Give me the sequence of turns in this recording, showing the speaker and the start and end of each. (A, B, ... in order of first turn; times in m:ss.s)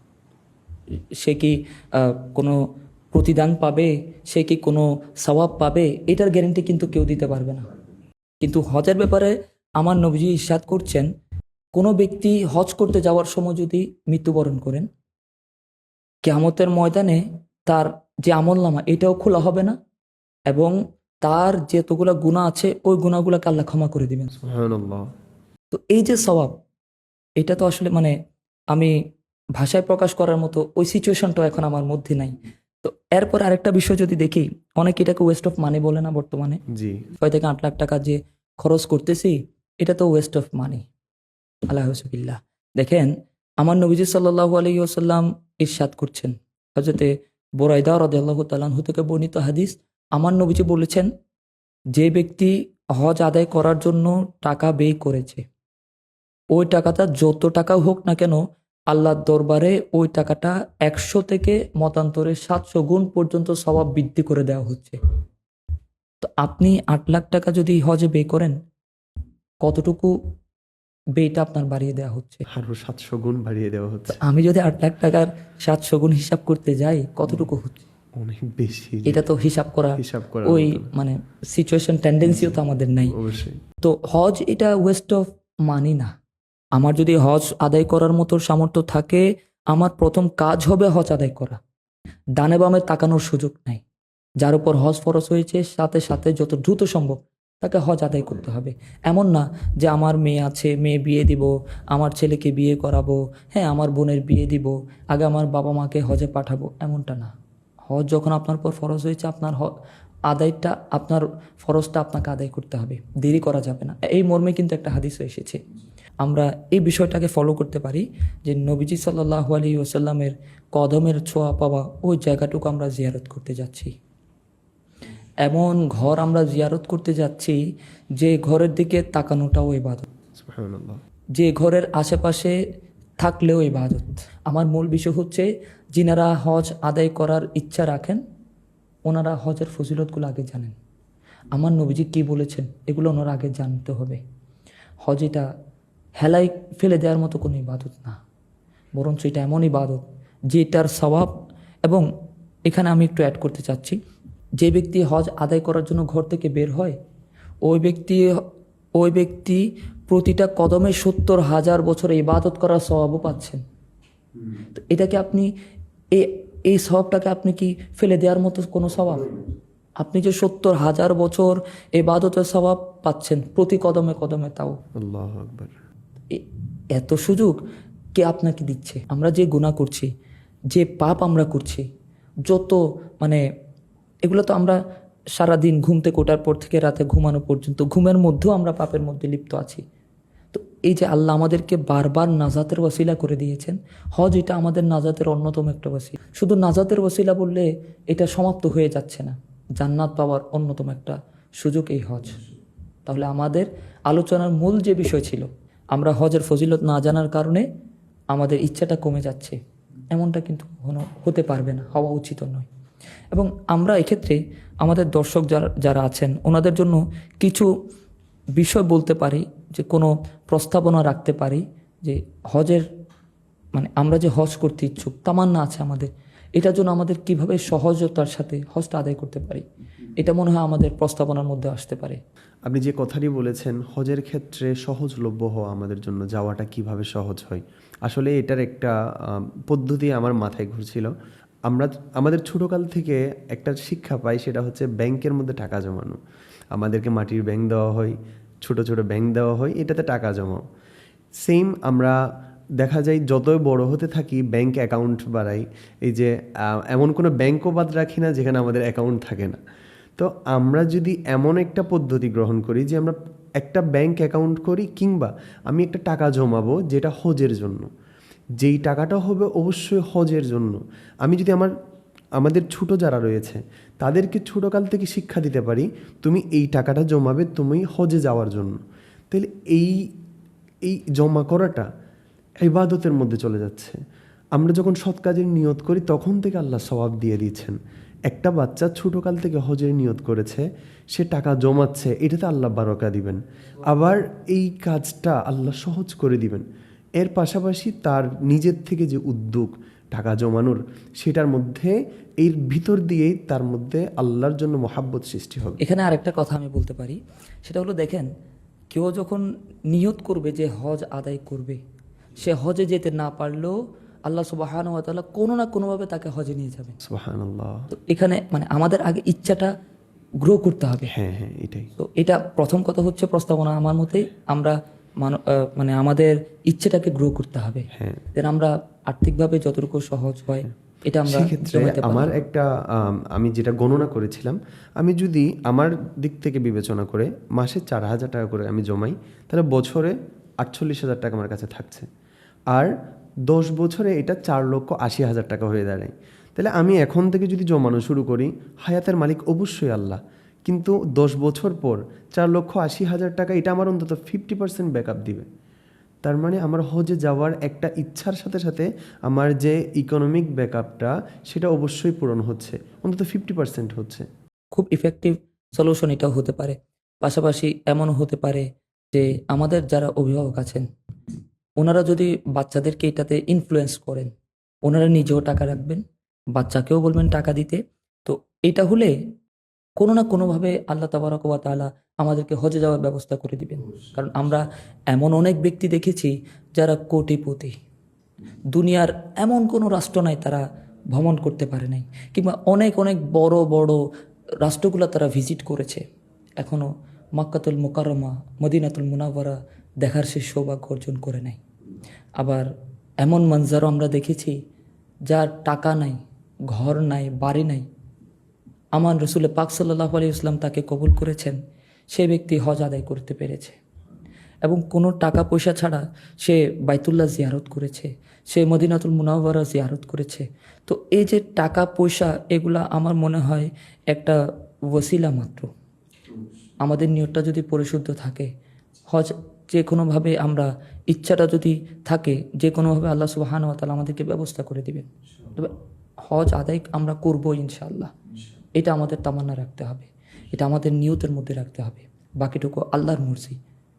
0:01.2-0:02.6 A
0:03.1-0:07.7 A
0:08.4-0:11.1 A
0:11.8-0:14.9 A
0:16.2-0:19.8 A
0:20.5-0:24.3 A
0:24.4-0:25.0 B
0:25.7-0:26.5 A
0:27.4-0:28.1 A
0:29.6-0:36.6 A
0:36.7-0:37.1 B
0:37.2-0:40.8 A
0:41.7-0:51.1 A
0:51.9-0:55.4 A
0:56.5-1:05.0 A
1:06.2-1:08.5 A
1:09.6-1:10.1 A
1:11.2-1:12.4 A
1:12.5-1:14.2 B
1:14.2-1:17.9 A
1:18.2-1:19.2 B
1:19.0-1:23.2 A
1:20.0-1:20.9 B
1:22.2-1:22.6 B
1:23.1-1:23.6 B
1:23.8-1:26.1 A
1:26.8-1:31.6 A
1:32.4-1:33.8 A
1:34.4-1:47.3 A
1:47.9-1:49.7 A
1:50.3-1:55.6 A
1:56.2-2:03.9 A
2:05.4-2:07.6 A
2:08.2-2:10.0 A
2:10.3-2:11.0 B
2:11.4-2:12.6 A
2:13.2-2:18.2 A
2:19.0-2:20.7 A
2:21.5-2:24.2 A
2:25.0-2:25.5 A
2:26.2-2:28.2 A
2:29.0-2:31.3 A
2:32.7-2:34.0 A
2:34.6-2:37.0 A
2:37.6-2:38.2 A
2:39.0-2:43.6 A
2:44.7-2:45.5 A
2:46.1-2:49.3 A
2:50.0-2:54.8 A
2:55.0-2:55.7 B
2:56.3-2:57.6 A
2:58.1-3:00.1 A
3:00.7-3:01.9 A
3:02.5-3:03.4 A
3:04.2-3:04.8 A
3:05.4-3:09.8 A
3:10.5-3:22.4 A
3:23.1-3:27.6 A
3:28.3-3:29.6 A
3:30.1-3:32.7 A
3:33.3-3:37.7 A
3:38.6-3:42.8 A
3:43.7-3:49.6 A
3:50.2-3:52.2 A
3:52.7-4:01.1 B
4:01.7-4:06.2 B
4:06.7-4:10.6 B
4:11.4-4:12.2 B
4:12.8-4:19.6 B
4:20.2-4:27.9 B
4:28.6-4:31.7 B
4:32.4-4:38.8 B
4:39.3-4:40.0 B
4:40.8-4:41.9 B
4:42.6-4:44.0 B
4:44.5-4:56.6 B
4:57.2-5:05.8 B
5:05.8-5:08.3 A
5:08.9-5:11.8 A
5:12.4-5:17.0 A
5:17.0-5:17.9 B
5:17.9-5:19.7 A
5:20.4-5:21.1 A
5:21.1-5:21.9 B
5:22.0-5:32.4 A
5:27.9-5:28.2 B
5:31.2-5:42.1 B
5:43.5-5:55.5 B
5:56.2-6:04.2 B
6:04.7-6:10.8 A
6:11.8-6:14.3 A
6:14.8-6:16.0 A
6:16.5-6:19.1 A
6:20.0-6:27.8 A
6:28.7-6:34.0 A
6:34.6-6:36.0 A
6:36.6-6:41.6 A
6:42.4-6:42.7 A
6:43.2-6:44.6 A
6:45.3-6:46.2 A
6:46.7-6:47.9 A
6:49.0-6:51.6 A
6:52.1-6:53.8 A
6:54.6-7:04.4 A
7:04.9-7:05.7 A
7:06.8-7:08.5 A
7:09.1-7:15.7 A
7:16.3-7:18.1 A
7:18.8-7:23.6 A